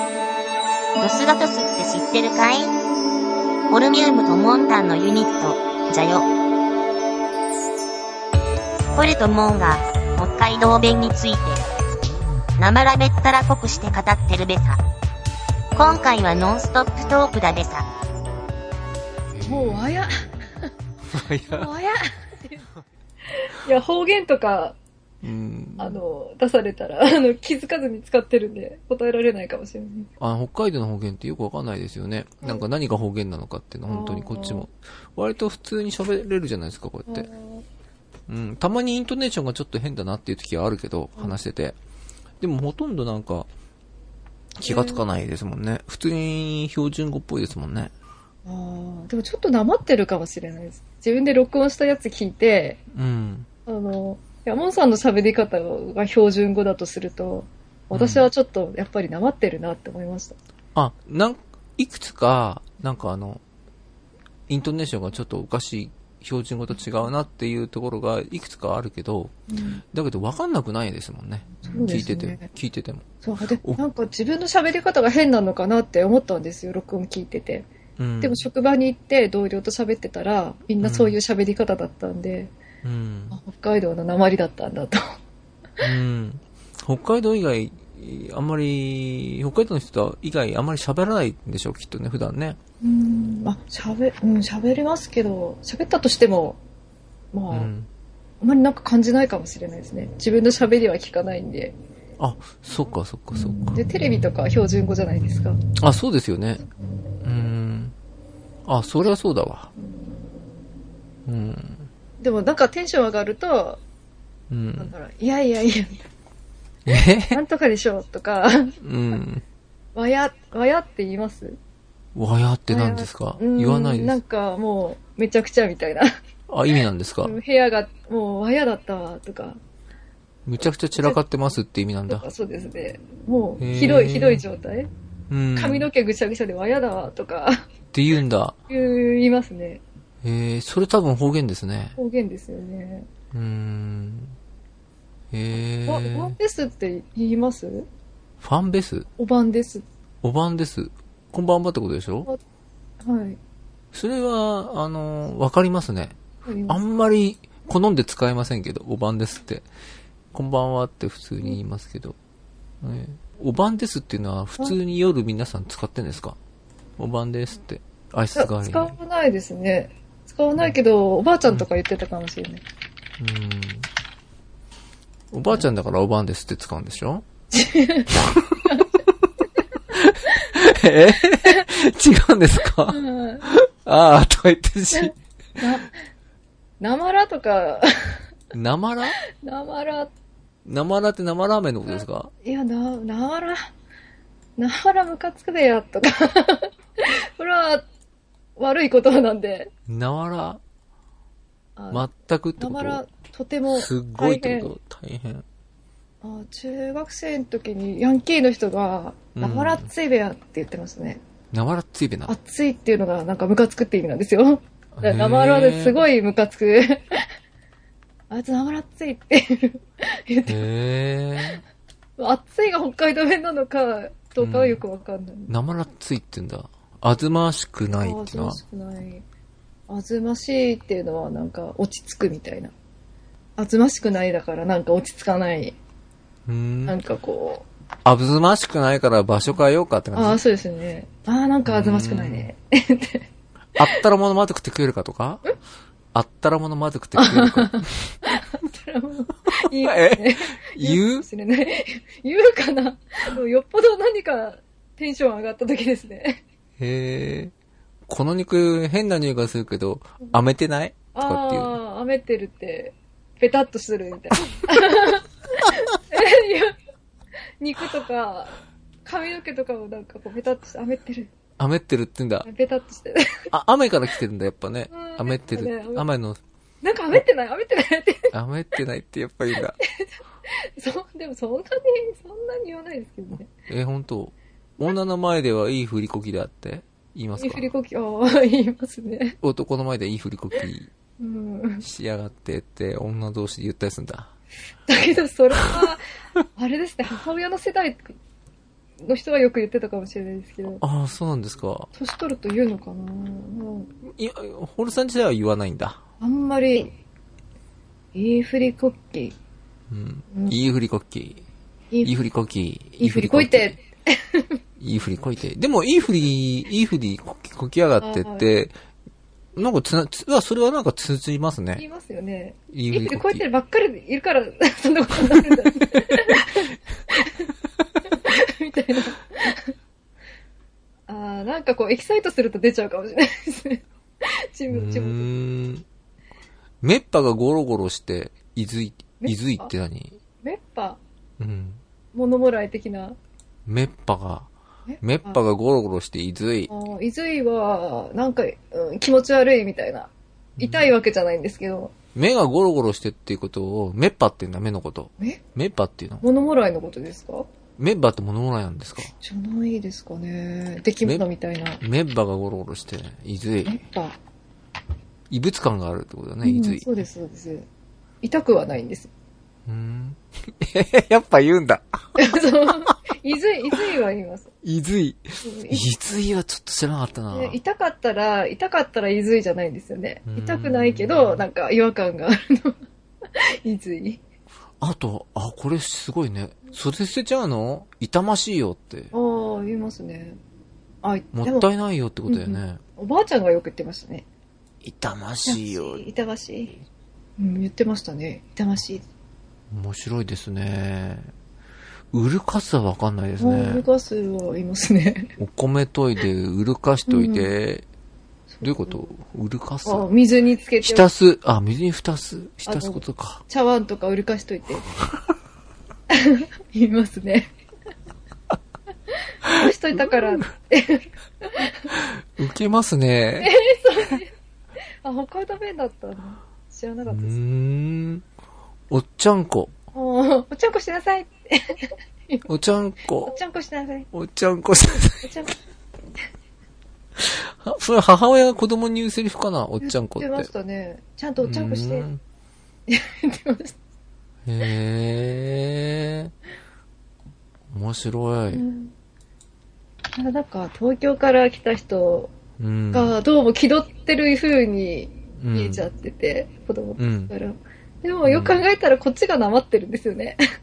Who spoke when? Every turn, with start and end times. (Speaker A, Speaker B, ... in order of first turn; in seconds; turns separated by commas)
Speaker A: 1.0-2.7, Speaker A: 3.7-6.3, Speaker A: 8.9-11.6, Speaker A: 12.6-14.8, Speaker A: 15.8-17.9, Speaker B: 19.3-20.4, Speaker C: 19.4-20.5, Speaker B: 21.1-21.7, Speaker C: 21.5-22.7, Speaker C: 23.3-24.8, Speaker B: 25.2-26.0, Speaker C: 25.8-30.1, Speaker B: 30.2-37.3, Speaker C: 33.9-34.7, Speaker C: 37.1-37.6, Speaker B: 38.3-41.8, Speaker B: 42.4-43.5, Speaker B: 44.6-47.9, Speaker C: 44.7-45.0, Speaker C: 48.5-52.8, Speaker B: 52.9-53.5, Speaker C: 53.7-60.4, Speaker B: 57.9-58.3, Speaker B: 60.8-63.4, Speaker B: 64.5-69.3, Speaker C: 69.5-69.8, Speaker B: 69.9-73.8, Speaker C: 71.6-72.5, Speaker C: 73.2-77.7, Speaker B: 78.0-78.5, Speaker C: 78.2-82.5, Speaker B: 80.8-81.2, Speaker B: 82.8-83.4, Speaker C: 83.3-85.0, Speaker B: 85.8-92.6, Speaker C: 92.8-96.6, Speaker C: 97.3-97.7, Speaker B: 97.5-97.9, Speaker C: 98.4-101.8, Speaker B: 102.2-103.8, Speaker C: 103.3-105.6, Speaker B: 105.8-106.6, Speaker B: 107.2-107.9, Speaker B: 108.7-109.7, Speaker C: 109.8-110.1, Speaker B: 111.3-111.9, Speaker C: 112.2-113.8, Speaker B: 114.5-114.9, Speaker C: 114.8-116.0, Speaker B: 116.9-117.4, Speaker C: 117.3-118.8, Speaker B: 118.8-119.4, Speaker C: 120.0-121.6, Speaker B: 122.2-124.2, Speaker C: 122.7-126.1, Speaker B: 126.5-127.4, Speaker C: 127.2-129.6, Speaker B: 130.5-132.3, Speaker C: 132.1-134.9, Speaker B: 133.6-134.4, Speaker B: 135.3-135.9, Speaker C: 135.6-137.6, Speaker B: 137.9-138.6, Speaker C: 138.7-139.8, Speaker B: 140.2-142.0, Speaker C: 142.0-143.1, Speaker B: 143.3-144.4, Speaker B: 145.3-146.4, Speaker C: 145.9-147.9, Speaker B: 148.4-149.1, Speaker C: 149.2-149.8, Speaker B: 150.2-152.3, Speaker C: 153.0-153.4, Speaker B: 153.9-156.2, Speaker C: 156.5-156.8, Speaker B: 156.7-159.7, Speaker B: 160.3-162.2, Speaker B: 162.8-166.4, Speaker B: 167.0-168.9, Speaker C: 168.4-172.6, Speaker B: 173.2-173.9, Speaker B: 175.3-177.2, Speaker C: 177.5-179.0, Speaker B: 179.9-185.2, Speaker C: 182.9-183.5, Speaker C: 184.9-186.0, Speaker C: 186.8-188.2, Speaker B: 188.5-189.2, Speaker C: 189.2-190.1, Speaker B: 190.7-192.3, Speaker C: 192.0-193.7, Speaker C: 194.6-197.9, Speaker C: 198.6-199.7, Speaker B: 199.9-200.6, Speaker C: 201.8-204.7, Speaker B: 201.9-203.0, Speaker B: 203.7-205.5, Speaker C: 206.2-211.2, Speaker B: 209.4-209.9, Speaker B: 211.5-212.3, Speaker C: 212.3-217.3, Speaker B: 215.0-216.1, Speaker C: 218.3-220.7, Speaker B: 220.5-221.6, Speaker C: 222.2-225.5, Speaker B: 224.4-224.8, Speaker B: 225.5-228.6, Speaker C: 227.9-229.2, Speaker C: 229.9-232.7, Speaker C: 233.6-235.8, Speaker B: 236.5-237.0, Speaker C: 236.9-237.7, Speaker B: 238.1-240.4, Speaker C: 240.1-243.2, Speaker B: 241.7-242.5, Speaker B: 243.8-245.5, Speaker B: 246.1-248.2, Speaker C: 247.2-256.4, Speaker B: 249.8-251.3, Speaker B: 256.8-257.5, Speaker B: 258.1-261.8, Speaker C: 261.1-266.8, Speaker C: 267.6-271.3, Speaker B: 271.6-272.5, Speaker C: 272.4-273.5, Speaker B: 273.5-276.4, Speaker C: 274.9-276.1, Speaker C: 276.8-278.3, Speaker B: 278.3-279.8, Speaker C: 279.9-283.5, Speaker B: 283.5-287.7, Speaker C: 287.4-289.4, Speaker B: 289.4-290.9, Speaker C: 291.2-291.9, Speaker B: 291.8-294.3, Speaker C: 294.9-296.0, Speaker B: 295.6-295.9, Speaker C: 296.6-298.2, Speaker C: 299.0-300.8, Speaker B: 300.8-301.9, Speaker C: 301.9-303.9, Speaker B: 304.0-306.0, Speaker C: 306.2-306.9, Speaker C: 308.1-309.4, Speaker B: 309.9-311.4, Speaker B: 312.0-313.8, Speaker C: 313.0-314.6, Speaker B: 314.8-318.7, Speaker C: 318.0-318.5, Speaker B: 319.6-321.8, Speaker C: 321.8-327.5, Speaker B: 322.7-323.4, Speaker B: 325.3-326.4, Speaker C: 328.1-329.7, Speaker C: 331.1-335.3, Speaker B: 334.7-335.9, Speaker B: 336.8-340.2, Speaker C: 339.2-339.7, Speaker C: 340.4-341.0, Speaker B: 341.4-341.8, Speaker C: 342.1-343.2, Speaker B: 343.7-344.5, Speaker C: 344.9-345.4, Speaker B: 345.0-346.7, Speaker C: 346.7-351.9, Speaker B: 350.6-350.9, Speaker B: 352.1-356.2, Speaker C: 356.2-357.5, Speaker B: 357.8-359.1, Speaker C: 359.1-361.8, Speaker B: 361.8-363.8, Speaker C: 363.6-364.2, Speaker B: 365.3-367.1, Speaker C: 366.4-367.7, Speaker C: 368.2-369.1, Speaker B: 369.7-372.9, Speaker C: 372.2-374.5, Speaker B: 374.6-377.6, Speaker C: 375.4-375.9, Speaker C: 377.3-382.8, Speaker B: 380.3-381.4, Speaker C: 383.4-384.2, Speaker B: 384.8-389.1, Speaker C: 389.1-390.4, Speaker C: 391.0-391.7, Speaker B: 391.3-392.8, Speaker C: 392.3-394.3, Speaker B: 394.8-396.0, Speaker C: 395.5-396.8, Speaker C: 397.4-399.1, Speaker B: 399.7-401.3, Speaker B: 402.1-403.9, Speaker C: 403.4-405.3, Speaker B: 405.4-407.9, Speaker C: 407.1-407.5, Speaker C: 408.5-409.1, Speaker B: 408.6-410.1, Speaker C: 409.9-411.1, Speaker B: 410.8-413.4, Speaker C: 412.7-414.9, Speaker C: 416.1-417.5, Speaker C: 419.4-421.9, Speaker B: 420.0-420.3, Speaker B: 421.9-423.5, Speaker C: 423.4-424.3, Speaker C: 425.0-427.4, Speaker B: 427.1-428.2, Speaker B: 428.9-429.7, Speaker C: 429.9-432.5, Speaker B: 432.5-433.4, Speaker C: 433.3-434.1, Speaker B: 434.1-435.3, Speaker C: 435.2-435.6, Speaker B: 437.2-440.5, Speaker C: 439.8-442.1, Speaker B: 441.4-442.2, Speaker C: 442.9-443.8, Speaker B: 444.5-446.3, Speaker B: 447.7-448.6, Speaker C: 448.5-448.9, Speaker C: 450.2-452.3, Speaker B: 452.6-453.2, Speaker C: 452.9-460.4, Speaker B: 455.4-455.9, Speaker B: 457.0-457.3, Speaker B: 458.2-458.6